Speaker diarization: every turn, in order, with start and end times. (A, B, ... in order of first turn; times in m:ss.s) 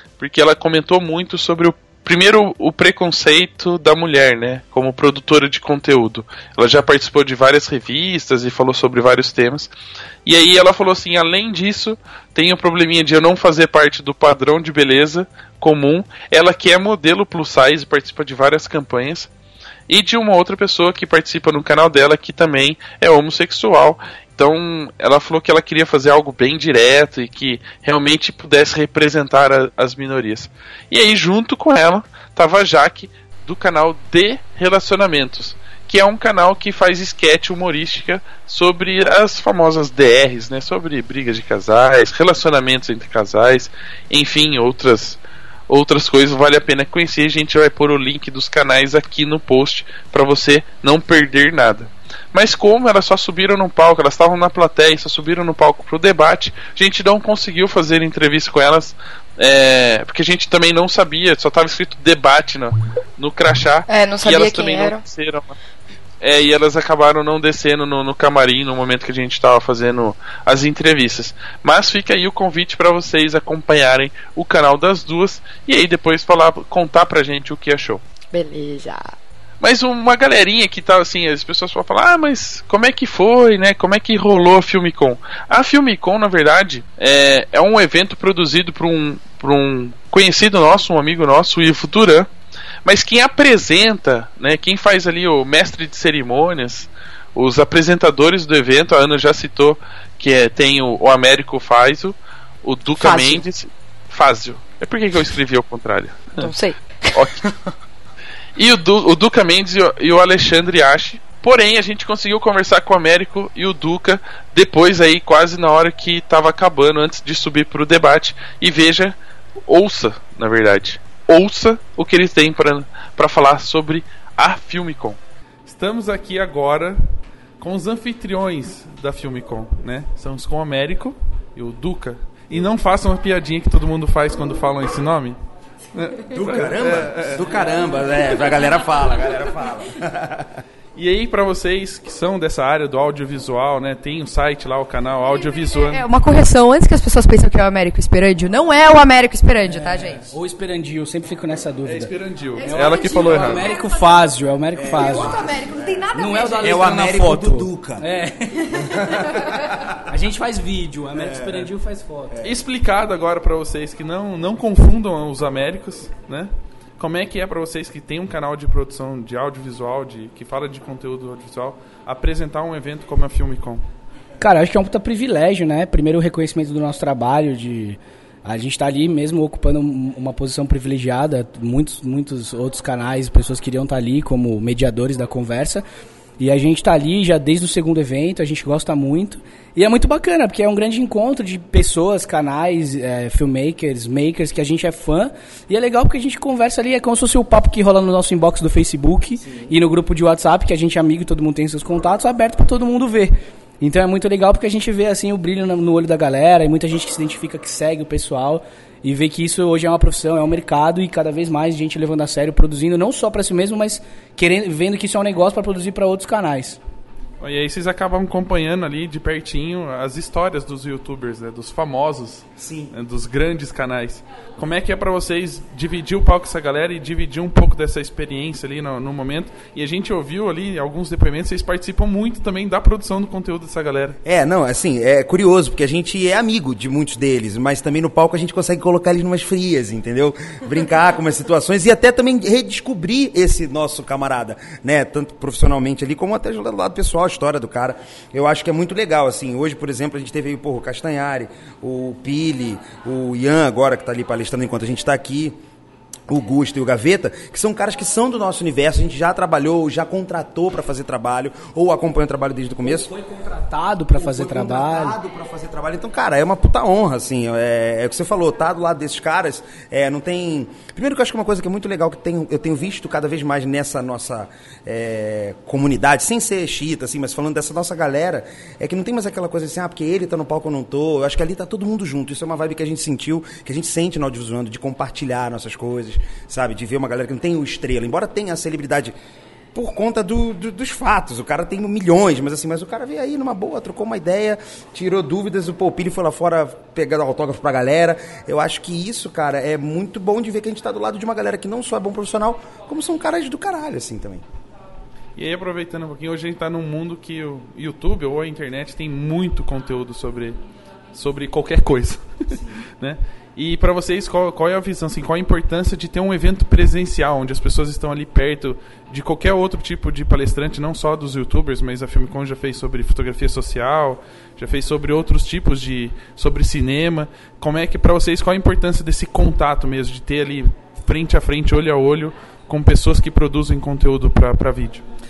0:00.2-0:09.7 A
0:10.2-0:19.3 A
0:19.9-1:05.5 A
1:03.9-1:05.0 B
1:06.2-1:18.0 A
1:18.3-1:19.1 B
1:19.6-1:32.3 A
1:32.8-1:46.5 A
1:43.0-1:43.4 B
1:46.4-1:47.5 B
1:47.2-1:47.4 A
1:48.6-2:05.2 A
2:05.7-2:07.1 C
2:07.6-2:15.4 C
2:15.9-2:17.6 C
2:16.3-2:20.4 D
2:21.0-2:26.0 C
2:25.8-2:30.2 E
2:29.7-2:35.4 F
2:31.8-2:33.7 C
2:32.8-2:33.3 E
2:34.8-2:38.1 D
2:35.4-2:36.8 E
2:36.1-2:39.0 F
2:38.9-2:39.9 D
2:40.1-2:42.4 F
2:41.1-2:41.7 D
2:42.4-2:53.8 C
2:54.4-3:05.8 F
3:06.4-3:36.8 F
3:37.4-3:54.2 C
3:42.6-3:42.9 D
3:54.2-4:15.6 D
4:16.3-4:23.1 D
4:22.8-4:25.2 F
4:24.1-4:49.2 D
4:49.7-5:04.4 D
5:05.4-5:10.6 C
5:11.1-5:35.0 C